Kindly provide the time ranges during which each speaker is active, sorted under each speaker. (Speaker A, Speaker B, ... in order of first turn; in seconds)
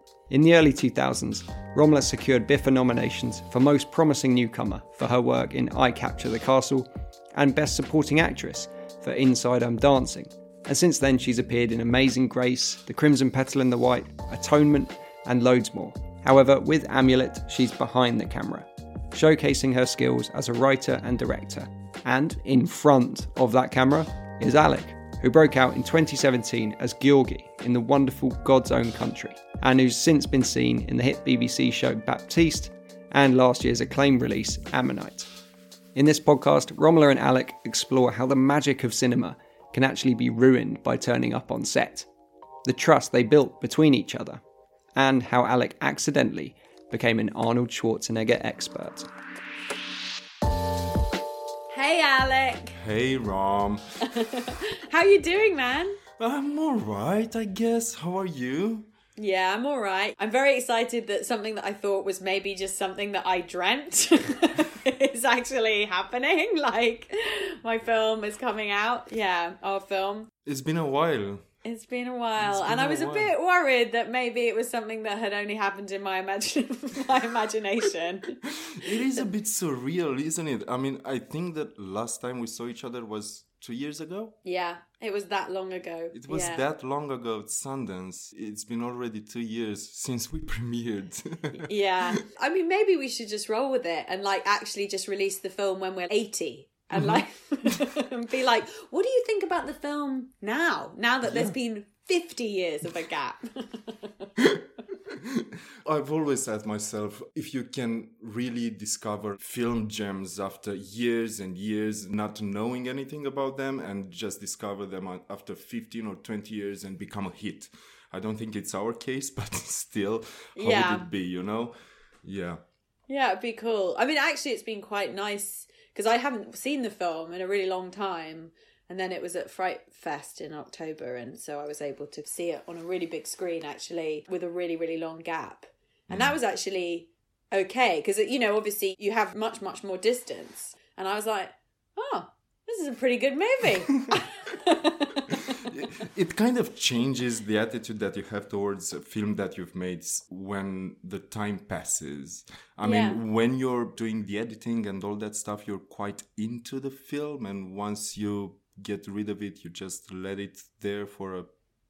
Speaker A: 0.3-35.3, 35.9-42.1, 42.6-44.4, 45.0-49.1
Speaker B: 51.7-52.8, 54.0-56.0, 59.2-70.3, 71.6-79.2, 84.4-86.6, 91.5-104.3, 120.5-121.0, 123.1-145.6, 152.8-153.2
Speaker C: 52.7-53.8, 56.2-58.9, 70.4-71.5, 72.4-73.3, 78.6-84.3, 86.1-92.2, 96.9-97.8, 101.2-101.5, 104.4-121.7, 122.2-122.6, 136.1-136.3, 145.3-161.5